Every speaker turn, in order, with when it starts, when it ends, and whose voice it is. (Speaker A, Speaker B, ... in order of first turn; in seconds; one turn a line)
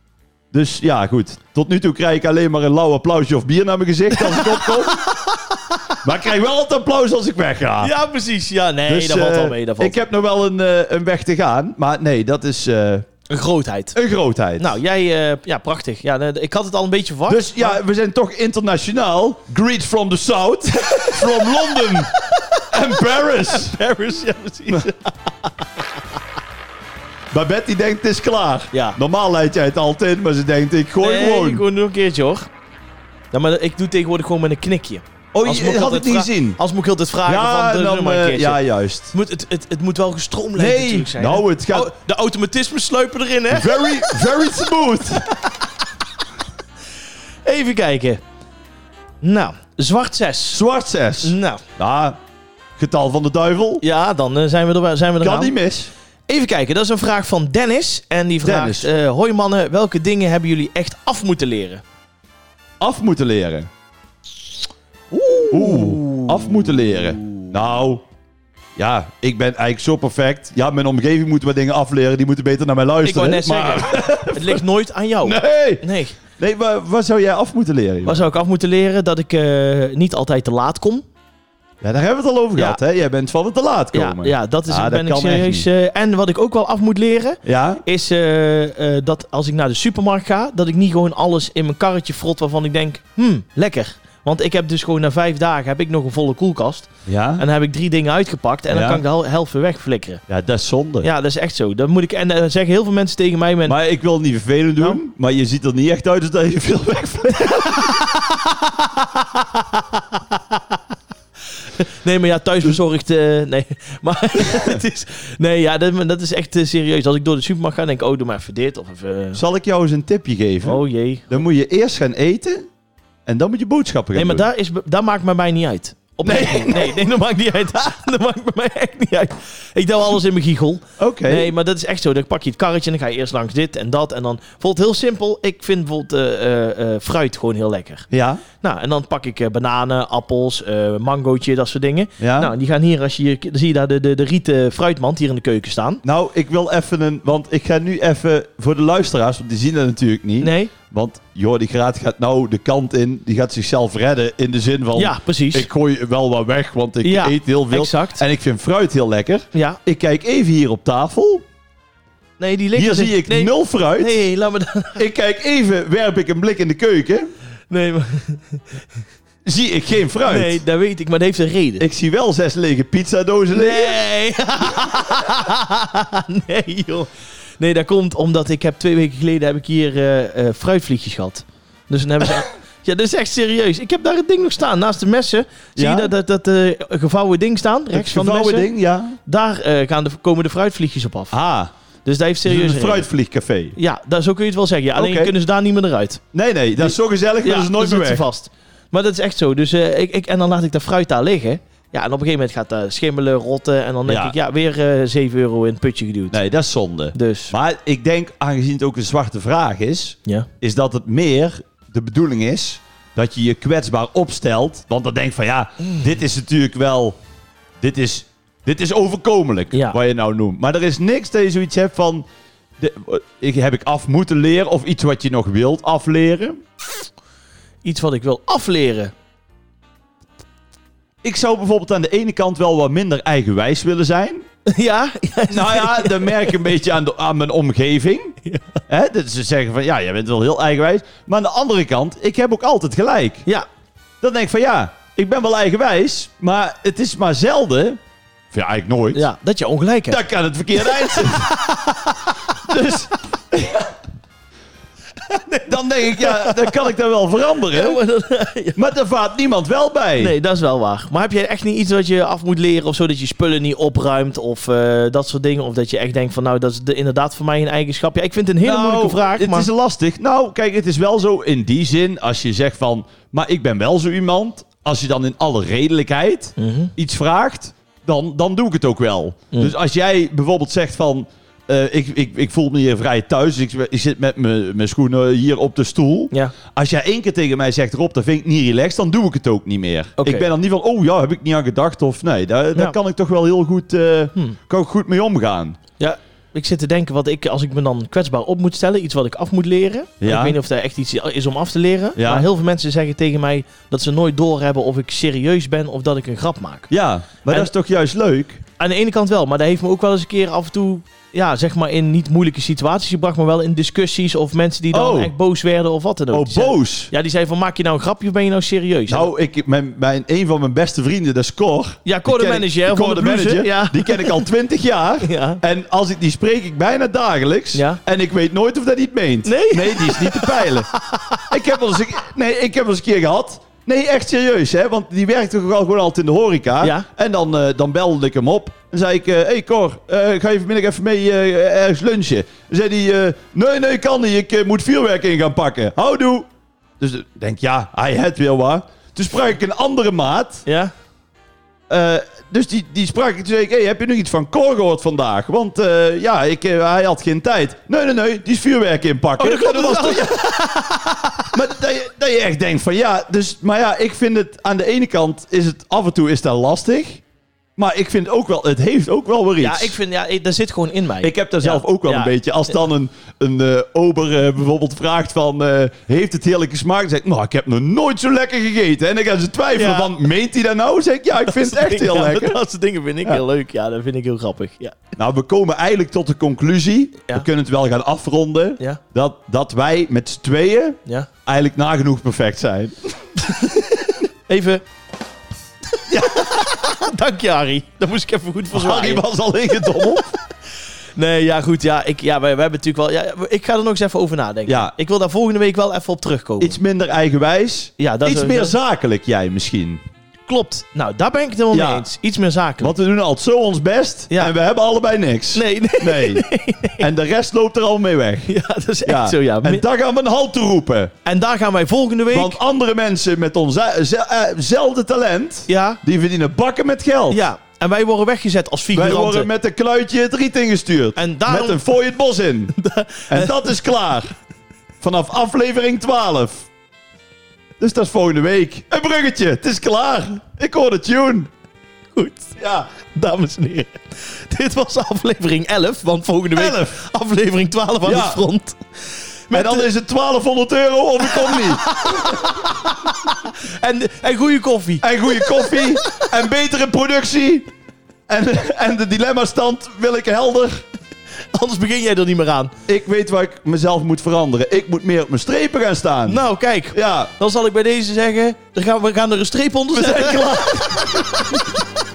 Speaker A: 0.5-5.1
Speaker B: 4.2-6.0
Speaker A: 6.0-7.9
Speaker B: 7.8-10.0
Speaker A: 8.9-13.1
Speaker B: 13.3-14.0
Speaker A: 13.9-14.7
Speaker B: 14.6-17.8
Speaker A: 17.3-22.1
Speaker B: 21.0-22.7
Speaker A: 22.7-23.8
Speaker B: 23.2-25.9
Speaker A: 27.3-31.6
Speaker B: 28.7-29.0
Speaker B: 31.0-32.5
Speaker B: 33.3-38.6
Speaker A: 35.3-36.6
Speaker A: 37.2-39.1
Speaker B: 39.1-44.2
Speaker A: 40.6-41.9
Speaker A: 43.5-45.6
Speaker B: 47.5-48.2
Speaker B: 49.2-50.6
Speaker A: 50.5-52.2
Speaker B: 51.2-51.6
Speaker A: 52.8-53.8
Speaker B: 53.8-55.5
Speaker A: 55.2-55.9
Speaker B: 56.3-61.8
Speaker A: 58.4-58.9
Speaker A: 62.8-63.7
Speaker B: 65.1-67.5
Speaker A: 65.4-68.0
Speaker A: 68.8-74.6
Speaker B: 73.0-76.2
Speaker A: 75.2-78.2
Speaker B: 78.0-81.0
Speaker A: 81.8-85.7
Speaker B: 83.9-100.2
Speaker A: 87.5-87.8
Speaker A: 97.1-97.4
Speaker A: 98.7-99.0
Speaker A: 100.3-101.1
Speaker B: 101.0-103.8
Speaker A: 103.7-108.3
Speaker B: 107.6-108.5
Speaker B: 109.4-110.6
Speaker B: 111.7-119.4
Speaker A: 114.4-114.8
Speaker A: 119.3-122.7
Speaker B: 120.6-121.4
Speaker A: 123.3-124.5
Speaker B: 124.1-138.1
Speaker A: 126.2-127.0
Speaker A: 131.0-131.5
Speaker A: 138.1-138.4
Speaker B: 138.6-146.0
Speaker A: 142.2-142.5
Speaker A: 146.0-161.4
Speaker B: 150.4-150.7
Speaker B: 155.0-155.7
Speaker B: 157.0-158.2
Speaker B: 159.5-159.8
Speaker B: 162.4-165.0
Speaker A: 162.8-164.1
Speaker A: 165.0-167.3
Speaker B: 167.7-168.8
Speaker A: 169.4-170.6
Speaker B: 170.3-171.9
Speaker A: 171.8-174.0
Speaker B: 173.5-188.7
Speaker A: 174.8-175.3
Speaker A: 185.8-186.1
Speaker A: 187.9-189.2
Speaker B: 189.3-191.4
Speaker A: 191.3-191.7
Speaker B: 192.1-193.1
Speaker A: 192.5-193.8
Speaker B: 193.8-196.2
Speaker A: 194.9-195.3
Speaker A: 196.3-198.3
Speaker B: 196.8-206.4
Speaker A: 204.1-204.3
Speaker A: 206.3-217.2
Speaker B: 207.1-207.5
Speaker A: 217.8-222.2
Speaker A: 222.8-226.6
Speaker B: 227.8-229.1
Speaker A: 231.2-234.5
Speaker B: 234.7-236.6
Speaker A: 235.5-238.4
Speaker A: 238.9-243.5
Speaker A: 244.2-248.0
Speaker A: 248.5-249.3
Speaker B: 249.1-250.2
Speaker A: 250.1-251.5
Speaker B: 250.8-253.0
Speaker A: 252.6-253.9
Speaker B: 255.2-256.9
Speaker A: 255.7-258.0
Speaker B: 257.6-258.8
Speaker A: 258.8-260.3
Speaker B: 260.2-269.7
Speaker A: 268.6-295.8
Speaker B: 276.6-276.9
Speaker B: 290.2-290.5
Speaker B: 296.0-306.9
Speaker A: 300.2-300.6
Speaker A: 302.2-302.5
Speaker A: 306.9-308.6
Speaker B: 308.8-319.3
Speaker A: 314.9-315.3
Speaker A: 316.3-317.1
Speaker A: 319.1-330.9
Speaker B: 322.1-324.5
Speaker B: 325.2-325.6
Speaker B: 327.7-328.0
Speaker B: 329.4-331.5
Speaker A: 331.5-346.5
Speaker B: 336.8-337.1
Speaker A: 347.0-350.6
Speaker B: 350.7-350.9
Speaker A: 351.9-360.5
Speaker B: 359.4-361.5
Speaker A: 361.5-367.2
Speaker A: 367.8-370.0
Speaker B: 369.6-372.8
Speaker A: 371.2-382.6
Speaker B: 379.8-380.1
Speaker B: 381.4-385.0
Speaker A: 385.2-393.2
Speaker B: 393.4-394.8
Speaker B: 396.1-400.2
Speaker A: 398.7-400.2
Speaker B: 401.1-406.8
Speaker A: 404.7-404.9
Speaker A: 406.6-410.0
Speaker B: 408.0-408.8
Speaker B: 410.5-412.9
Speaker A: 411.7-412.1
Speaker A: 412.8-416.4
Speaker B: 415.5-417.1
Speaker A: 417.0-418.5
Speaker B: 418.5-419.8
Speaker A: 419.1-421.1
Speaker B: 421.2-422.6
Speaker A: 422.3-427.4
Speaker B: 425.7-426.0
Speaker B: 427.3-429.5
Speaker A: 428.9-432.7
Speaker B: 431.2-431.8
Speaker B: 432.7-433.8
Speaker A: 433.3-434.3
Speaker A: 435.0-436.7
Speaker A: 437.8-441.5
Speaker B: 442.2-448.8
Speaker A: 442.6-442.9
Speaker A: 446.5-447.0
Speaker A: 448.0-448.4
Speaker B: 449.5-449.9
Speaker A: 449.5-452.4
Speaker B: 451.3-456.4
Speaker A: 455.0-457.7
Speaker A: 458.3-460.8
Speaker B: 461.5-462.7
Speaker A: 462.9-467.3
Speaker B: 466.3-471.8
Speaker A: 469.9-471.1